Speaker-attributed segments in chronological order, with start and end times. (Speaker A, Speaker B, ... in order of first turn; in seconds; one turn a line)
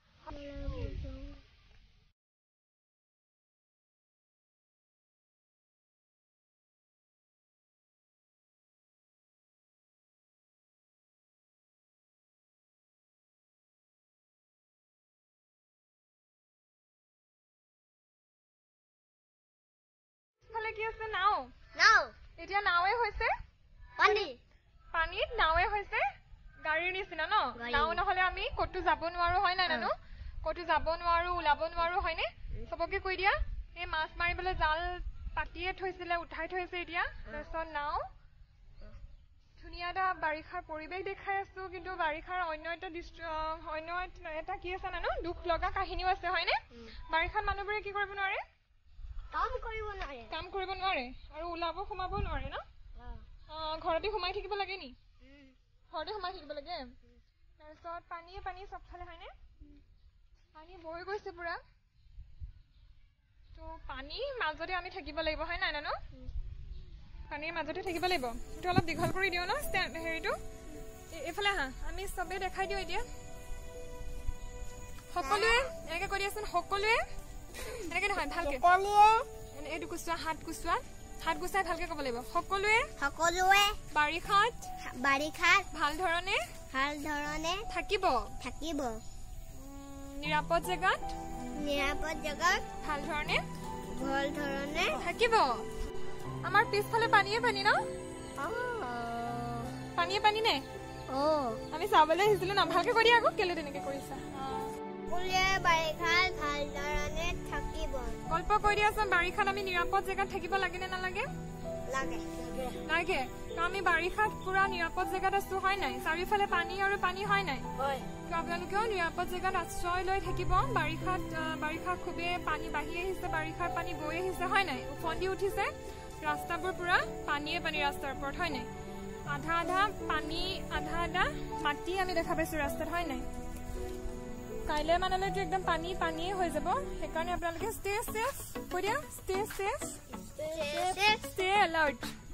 Speaker A: 0.3-1.4
Speaker B: 20.5-21.5
Speaker A: 21.8-22.1
Speaker B: 22.4-23.3
Speaker A: 24.0-24.4
Speaker B: 24.0-24.3
Speaker B: 24.9-26.1
Speaker B: 26.6-38.0
Speaker A: 27.6-28.0
Speaker B: 39.6-48.4
Speaker A: 49.3-50.4
Speaker B: 50.3-52.6
Speaker A: 53.0-53.3
Speaker B: 53.5-55.0
Speaker A: 55.2-55.5
Speaker B: 55.9-56.9
Speaker B: 57.6-59.3
Speaker B: 60.5-61.6
Speaker B: 63.5-66.0
Speaker B: 67.3-70.4
Speaker B: 71.1-73.1
Speaker B: 75.1-77.1
Speaker A: 75.2-75.7
Speaker B: 77.8-78.7
Speaker A: 78.2-79.3
Speaker B: 79.5-82.9
Speaker A: 83.0-83.8
Speaker B: 83.9-84.7
Speaker A: 84.8-85.7
Speaker B: 85.7-86.5
Speaker A: 86.7-87.7
Speaker B: 87.7-88.3
Speaker A: 88.4-89.0
Speaker B: 89.9-91.2
Speaker A: 91.5-92.7
Speaker B: 92.8-93.5
Speaker A: 93.9-95.0
Speaker B: 95.0-95.7
Speaker B: 96.4-97.8
Speaker A: 98.4-99.8
Speaker B: 100.0-100.7
Speaker A: 101.1-101.6
Speaker B: 101.7-104.7
Speaker A: 105.1-108.2
Speaker B: 108.3-111.3
Speaker A: 111.9-112.8
Speaker B: 112.8-117.7
Speaker B: 118.3-128.7
Speaker B: 129.3-133.3
Speaker B: 134.7-140.0
Speaker A: 140.4-141.3
Speaker B: 140.7-142.1